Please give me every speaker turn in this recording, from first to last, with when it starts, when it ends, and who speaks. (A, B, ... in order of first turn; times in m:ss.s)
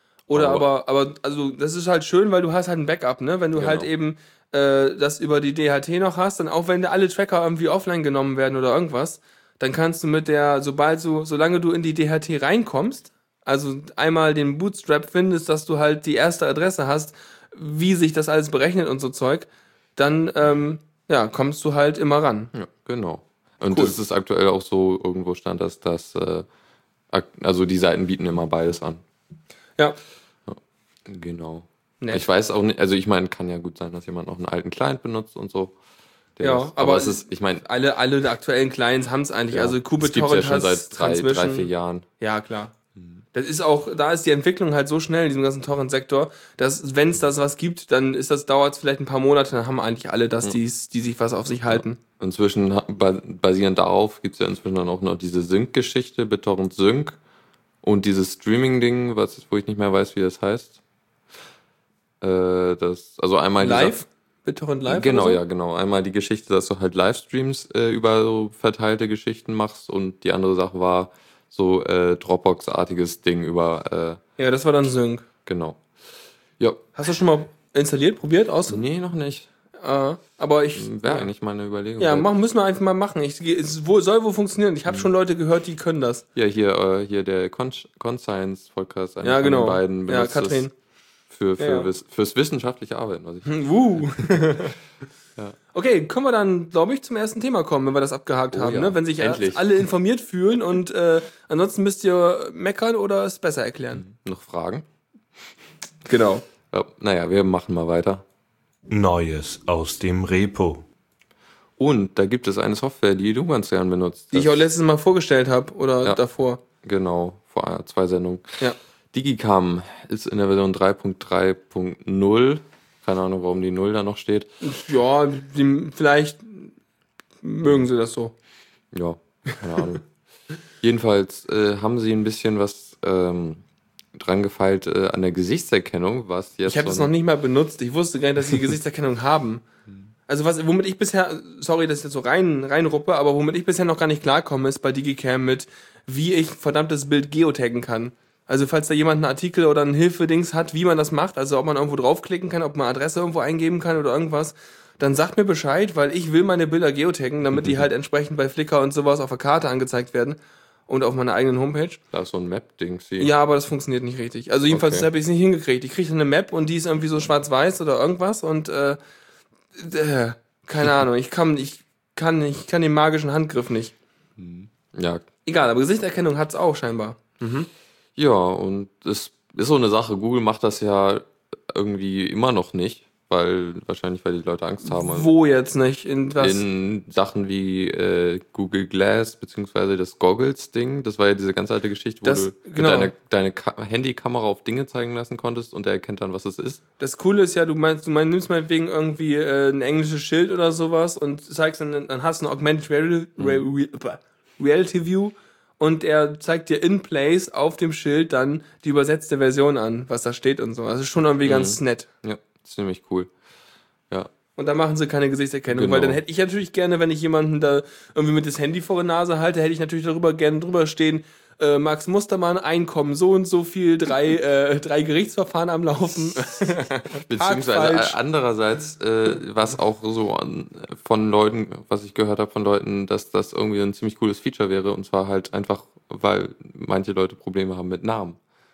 0:00.3-0:22.5 A
0:00.3-0:00.6 B
0:03.6-0:03.9 B
0:22.5-0:26.4 B
0:23.7-0:24.0 A
0:27.1-0:29.0 B
0:30.5-0:35.7 B
0:36.4-0:37.6 B
0:36.4-0:41.7 A
0:39.5-0:42.1 B
0:42.2-0:42.7 A
0:43.3-0:52.0 A
0:51.7-0:57.2 B
0:57.8-1:00.8 B
1:02.2-1:04.0 B
1:03.6-1:05.4 A
1:04.9-1:14.2 B
1:14.4-1:15.2 A
1:15.4-1:15.8 B
1:16.6-1:16.8 B
1:16.9-1:18.8 A
1:18.7-1:19.5 B
1:19.8-1:21.3 A
1:20.7-1:22.3 B
1:22.0-1:26.2 A
1:26.3-1:30.6 B
1:29.2-1:30.7 A
1:31.3-1:34.6 B
1:31.6-1:31.9 A
1:33.4-1:34.8 A
1:35.7-1:44.0 A
1:38.5-1:39.6 B
1:43.9-1:44.8 B
1:46.0-1:46.4 A
1:46.7-1:48.2 B
1:48.9-1:50.8 C
1:51.8-1:54.6 B
1:54.3-1:56.6 A
1:56.8-1:58.6 B
1:59.1-2:04.5 B
2:04.6-2:06.7 A
2:07.4-2:08.3 A
2:08.9-2:10.0 B
2:10.8-2:13.6 B
2:14.1-2:17.1 B
2:16.6-2:19.6 A
2:20.3-2:42.0 A
2:42.1-2:43.3 B
2:43.2-2:49.0 A
2:44.7-2:45.1 B
2:49.7-2:53.9 A
2:54.4-2:55.2 B
2:55.4-2:57.7 A
2:58.2-3:05.3 B
3:04.8-3:06.6 A
3:06.4-3:16.8 B
3:12.2-3:13.1 A
3:17.0-3:32.1 A
3:31.4-3:33.3 B
3:34.6-3:48.2 A
3:35.7-3:36.2 B
3:47.2-3:58.4 B